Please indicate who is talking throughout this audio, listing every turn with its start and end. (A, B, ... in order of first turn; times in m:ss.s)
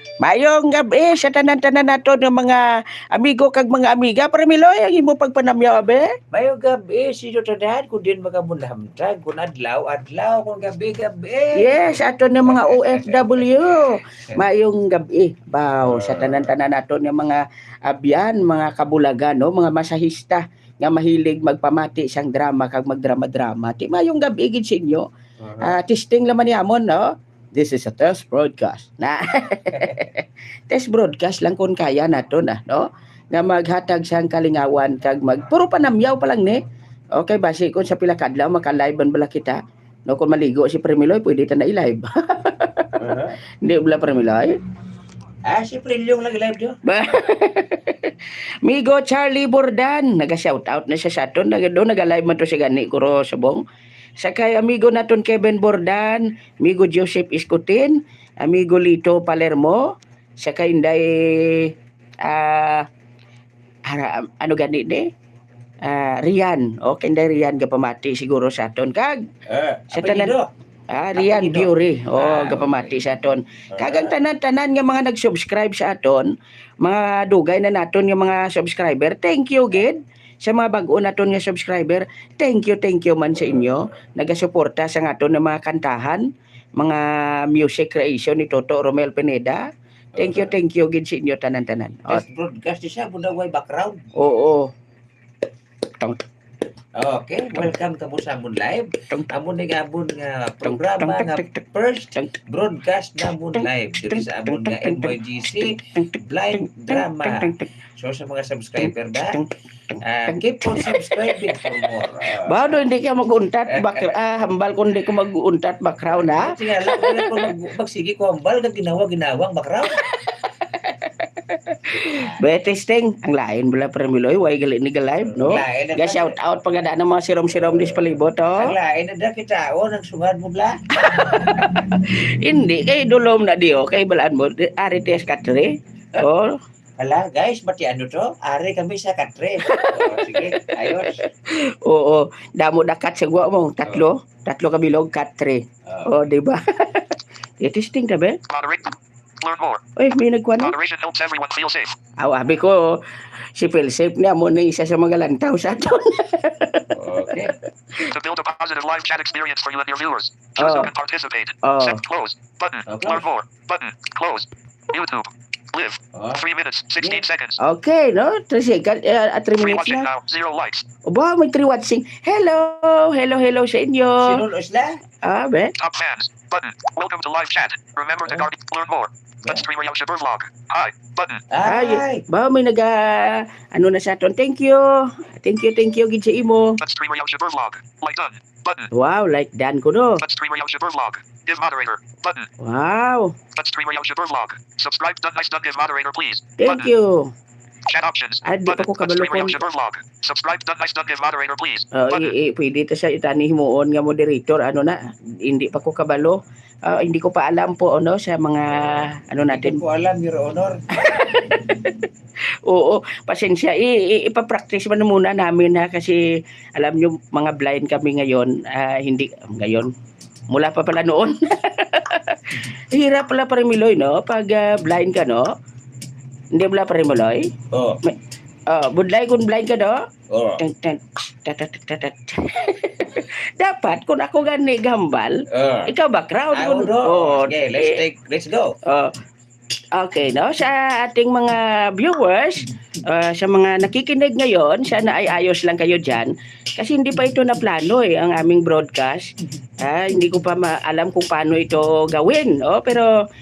0:00.2-0:06.1 A
0:06.3-0:14.4 B
0:11.6-0:25.1 A
0:15.8-0:16.5 B
0:25.4-0:25.8 B
0:25.6-0:36.6 A
0:37.2-0:43.0 A
0:43.0-0:43.4 B
0:43.6-0:44.6 A
0:45.4-0:46.8 B
0:46.8-0:53.6 A
0:54.2-0:59.8 A
1:00.4-1:02.9 A
1:03.9-1:05.1 A
1:05.8-1:09.2 A
1:09.5-1:10.5 B
1:09.9-1:10.3 A
1:10.9-1:26.2 A
1:11.1-1:12.9 B
1:13.7-1:14.1 B
1:26.8-1:29.6 A
1:30.2-1:30.5 B
1:30.2-1:32.2 A
1:32.1-1:34.1 B
1:34.2-1:34.7 A
1:36.9-1:49.4 B
1:40.6-1:41.5 A
1:43.6-1:47.7 A
1:49.3-1:51.6 A
1:50.0-1:52.8 B
1:52.4-1:57.4 A
1:53.7-1:54.5 B
1:56.1-2:00.0 B
2:00.0-2:08.7 A
2:01.9-2:02.4 B
2:05.2-2:06.4 B
2:07.6-2:10.8 B
2:11.0-2:16.6 A
2:17.0-2:21.3 B
2:19.7-2:20.3 A
2:20.9-2:28.4 A
2:25.8-2:26.2 B
2:28.5-2:29.8 C
2:30.0-2:30.7 A
2:30.6-2:31.9 C
2:32.2-2:33.0 A
2:33.5-2:37.4 A
2:36.9-2:37.5 B
2:38.1-2:47.6 C
2:40.6-2:40.9 A
2:41.6-2:42.0 A
2:42.9-2:43.2 B
2:46.1-2:46.4 B
2:47.0-2:47.2 B
2:47.6-2:50.1 A
2:49.6-2:50.8 C
2:51.0-2:54.4 A
2:54.2-2:55.0 B
2:55.2-2:55.7 A
2:55.8-3:01.4 C
3:01.5-3:02.2 B
3:01.6-3:06.8 A
3:06.8-3:08.9 C
3:08.9-3:10.2 A
3:10.2-3:12.5 C
3:12.6-3:13.4 A
3:13.5-3:16.9 C
3:16.6-3:17.3 A
3:17.8-3:22.3 C
3:18.4-3:19.6 A
3:21.9-3:29.8 A
3:29.5-3:30.8 B
3:31.0-3:32.1 A
3:32.6-3:39.9 A
3:40.5-3:45.5 A
3:46.5-3:47.5 A
3:47.7-3:48.0 B
3:48.0-3:50.0 A
3:50.3-3:50.6 B
3:50.6-3:58.0 A
3:55.5-3:55.9 B
3:56.5-3:58.8 B
3:58.8-3:59.1 A
3:59.9-4:13.1 A